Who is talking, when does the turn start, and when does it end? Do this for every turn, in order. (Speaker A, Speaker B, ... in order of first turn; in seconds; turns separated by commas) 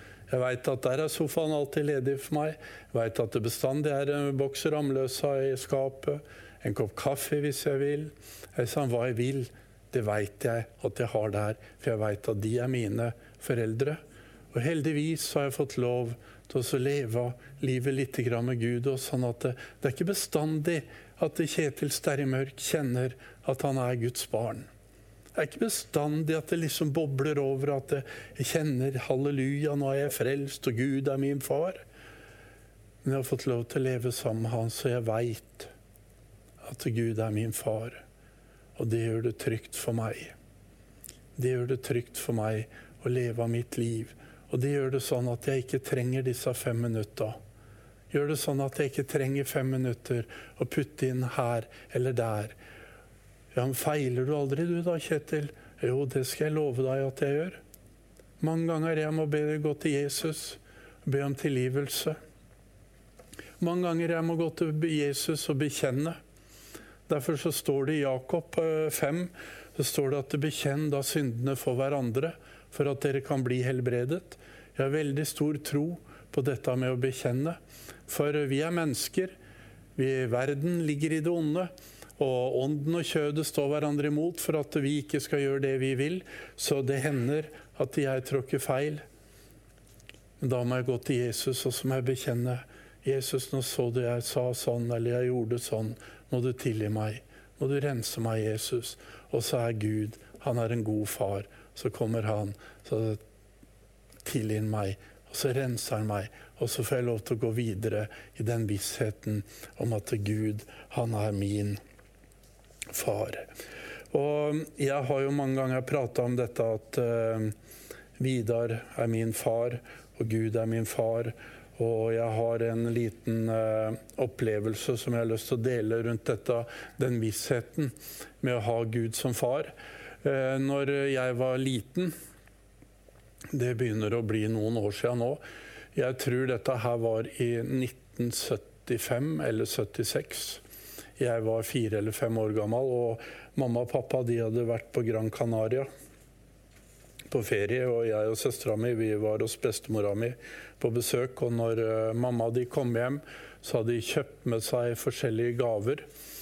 Speaker A: 0.3-14.0, Speaker A: 14.5-24.7, Speaker A: 25.3-31.8, Speaker A: 33.0-35.7, Speaker A: 36.6-38.0, Speaker A: 38.8-40.3, Speaker A: 41.4-47.4, Speaker A: 48.1-52.5, Speaker A: 53.5-57.6, Speaker A: 58.4-62.2, Speaker A: 63.6-66.2, Speaker A: 67.1-79.3, Speaker A: 80.0-89.0, Speaker A: 90.4-103.2, Speaker A: 104.2-111.8, Speaker A: 112.9-113.5, Speaker A: 114.1-117.5, Speaker A: 118.2-132.1, Speaker A: 133.5-135.4, Speaker A: 135.9-140.6, Speaker A: 141.2-145.9, Speaker A: 147.3-156.1